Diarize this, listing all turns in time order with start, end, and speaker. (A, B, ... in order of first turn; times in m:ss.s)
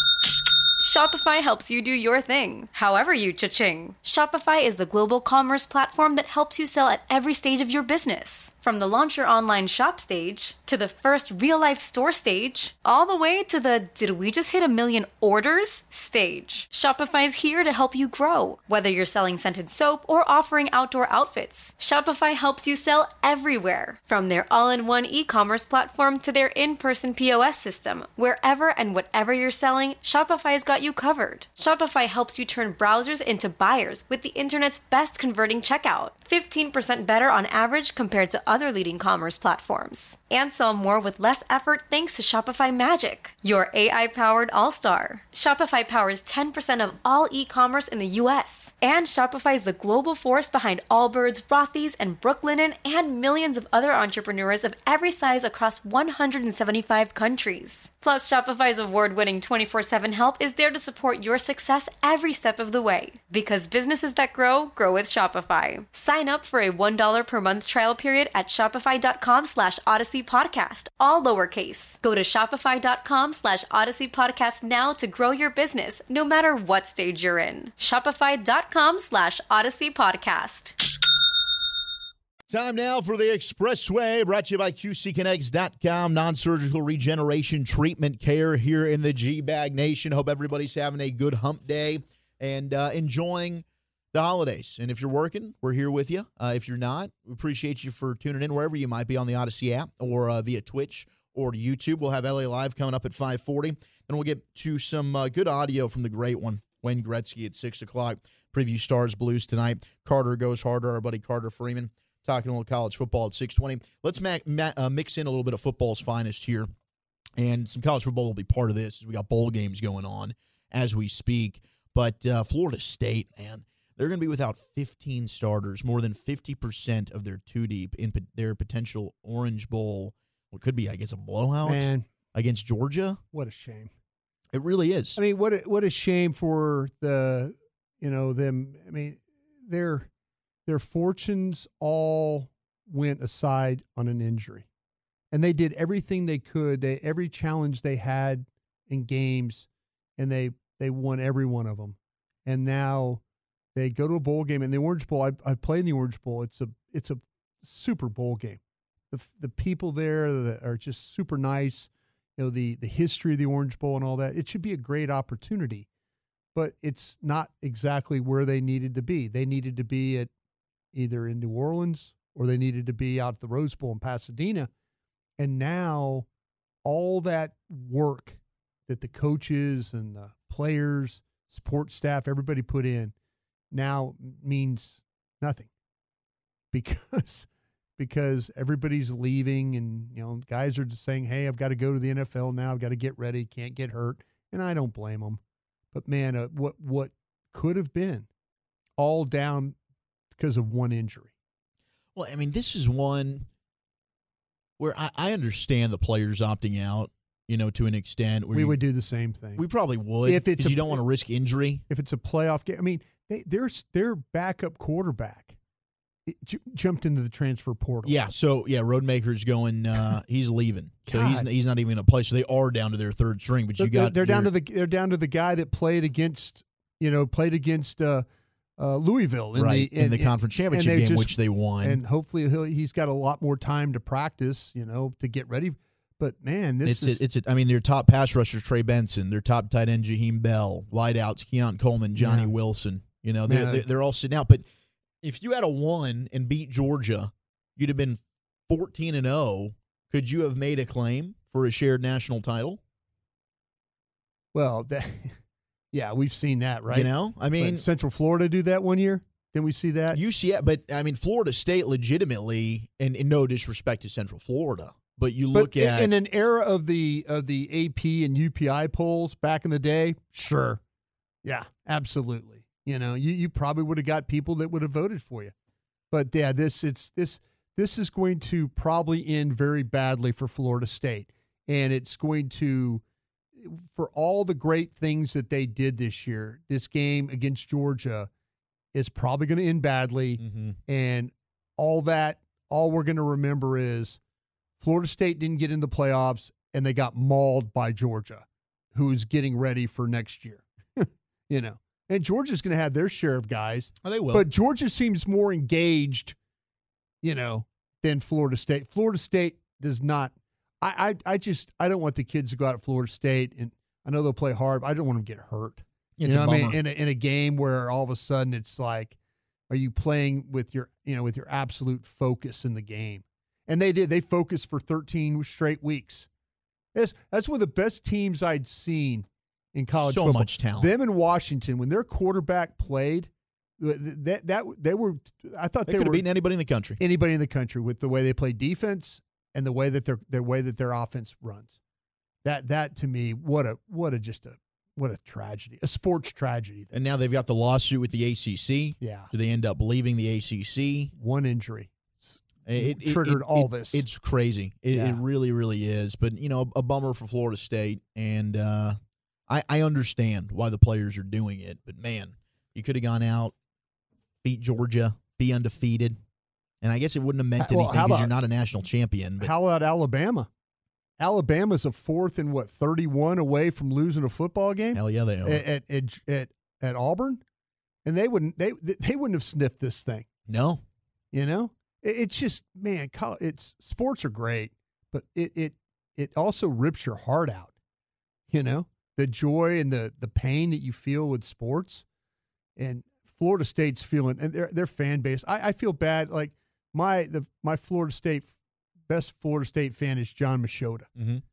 0:00.8-1:20.8 A
1:22.5-1:56.7 B
1:57.4-2:13.2 B
2:11.6-2:12.1 C
2:13.3-2:13.9 C
2:14.5-2:15.2 B
2:15.2-2:20.1 C
2:20.6-2:24.7 C
2:25.3-2:33.2 C
2:33.7-2:38.6 C
2:39.1-2:45.9 C
2:46.5-2:50.3 C
2:50.9-2:54.7 C
2:55.4-2:56.3 C
2:56.8-3:03.1 C
3:03.7-3:05.7 C
3:06.7-3:15.4 C
3:15.9-3:18.3 C
3:19.0-3:19.8 C
3:20.3-3:21.3 C
3:22.1-3:23.5 B
3:24.8-3:28.8 B
3:28.5-3:29.6 C
3:29.6-3:31.8 B
3:30.2-3:31.0 C
3:31.9-3:35.6 C
3:36.2-3:38.2 C
3:38.0-3:44.5 B
3:41.0-3:41.5 C
3:43.8-3:48.2 C
3:48.8-3:57.2 C
3:49.5-3:52.0 B
3:56.8-4:04.6 B
4:02.2-4:02.5 C
4:03.5-4:03.8 C
4:05.2-4:12.8 B
4:14.5-4:15.4 C
4:15.9-4:20.2 C
4:16.9-4:17.8 B
4:20.1-4:26.1 B
4:25.5-4:30.8 C
4:31.4-4:35.5 C
4:36.1-4:43.0 C
4:43.6-4:48.3 C
4:48.9-4:54.2 C
4:50.4-4:50.8 B
4:54.8-5:06.4 C
5:04.0-5:04.4 B
5:07.2-5:19.2 C
5:16.2-5:16.8 B
5:19.7-5:26.3 C
5:26.9-5:36.2 C
5:30.0-5:30.9 B
5:35.8-5:37.0 B
5:37.0-5:41.8 C
5:42.4-5:46.9 C
5:46.9-5:51.1 B
5:49.0-5:49.3 C
5:51.1-5:54.1 C
5:52.6-5:59.0 B
5:54.9-5:55.2 C
5:59.5-6:03.5 B
6:04.4-6:06.2 B
6:06.8-6:09.5 B
6:07.6-6:08.3 C
6:09.4-6:10.5 C
6:11.2-6:17.4 C
6:14.9-6:15.6 B
6:18.0-6:20.3 C
6:20.5-6:20.8 B
6:21.3-6:27.7 C
6:28.5-6:32.0 C
6:32.8-6:38.6 C
6:39.1-6:41.1 C
6:41.2-6:41.4 B